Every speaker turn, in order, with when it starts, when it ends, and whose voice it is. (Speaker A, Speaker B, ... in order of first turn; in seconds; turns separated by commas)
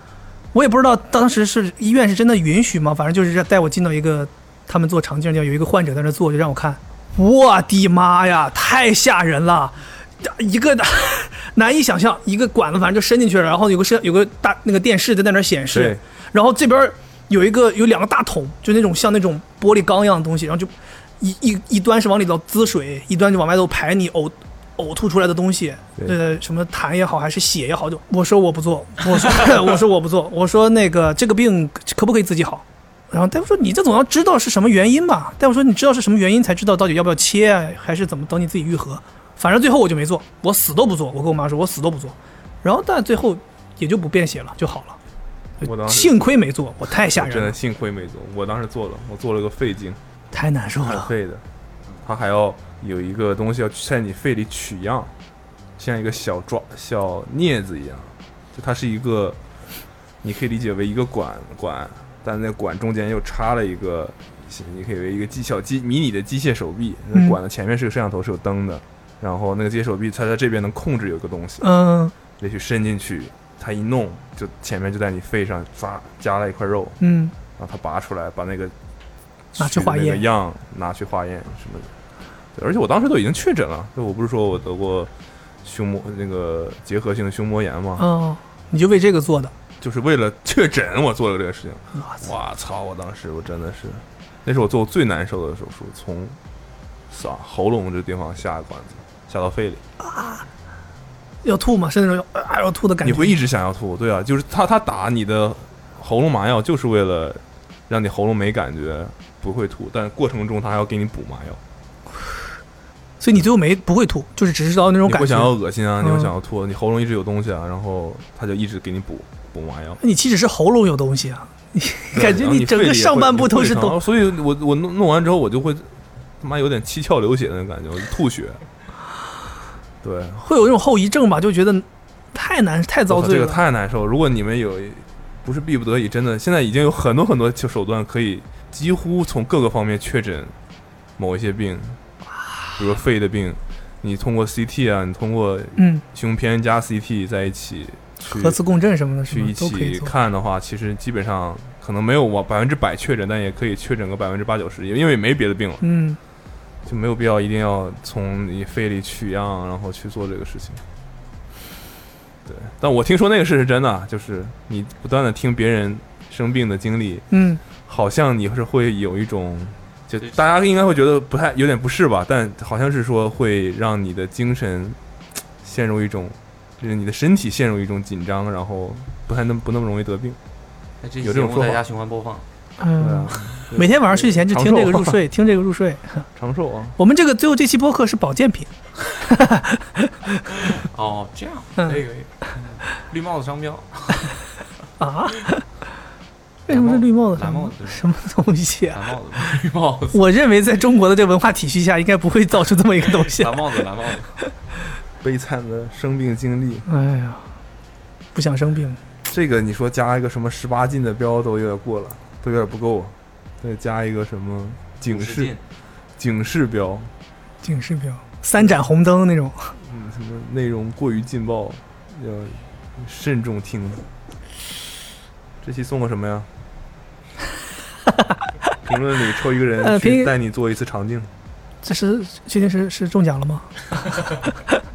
Speaker A: 0.5-45.0, Speaker B: 15.7-16.0, Speaker B: 45.6-46.3, Speaker A: 45.6-47.5, Speaker B: 47.1-50.0, Speaker A: 50.3-51.1, Speaker B: 50.8-51.4, Speaker B: 52.0-55.1, Speaker B: 55.8-59.4, Speaker B: 60.2-71.7, Speaker A: 71.6-72.1, Speaker B: 72.4-77.0, Speaker A: 77.0-77.3, Speaker B: 77.6-78.7, Speaker B: 79.5-81.9, Speaker A: 79.6-80.2, Speaker B: 82.5-85.1, Speaker B: 85.6-88.1, Speaker A: 88.0-89.5, Speaker B: 89.8-96.4, Speaker A: 92.0-92.3, Speaker B: 97.1-99.8, Speaker A: 100.0-100.5, Speaker A: 101.4-103.4, Speaker B: 103.0-111.6, Speaker A: 113.2-116.3, Speaker B: 115.0-120.0, Speaker A: 120.0-124.0, Speaker B: 122.1-128.6, Speaker B: 130.0-130.4, Speaker A: 130.4-133.6, Speaker B: 133.1-140.6, Speaker B: 141.2-142.0, Speaker B: 142.8-148.6, Speaker A: 145.8-146.0, Speaker A: 148.2-150.1, Speaker B: 149.3-155.8, Speaker A: 155.8-156.2, Speaker B: 156.8-160.8, Speaker B: 162.5-167.3, Speaker A: 167.3-167.6, Speaker B: 167.8-175.0, Speaker B: 175.6-180.4, Speaker C: 181.0-182.4, Speaker B: 181.2-181.8, Speaker A: 182.8-186.3, Speaker B: 183.0-185.2, Speaker B: 186.4-187.0, Speaker A: 187.0-188.7, Speaker A: 189.2-190.1, Speaker C: 190.7-194.3, Speaker A: 195.0-195.6, Speaker A: 196.7-199.0, Speaker C: 196.7-198.0, Speaker C: 198.9-200.2, Speaker A: 200.1-203.7, Speaker C: 203.1-204.3, Speaker B: 205.2-206.9, Speaker A: 206.9-207.4, Speaker A: 208.3-209.0, Speaker B: 209.3-215.6, Speaker C: 215.1-215.6, Speaker B: 216.2-217.1, Speaker A: 217.6-219.8, Speaker B: 219.8-224.1, Speaker B: 225.6-226.5, Speaker B: 228.8-231.3, Speaker A: 229.8-230.3, Speaker A: 231.8-233.7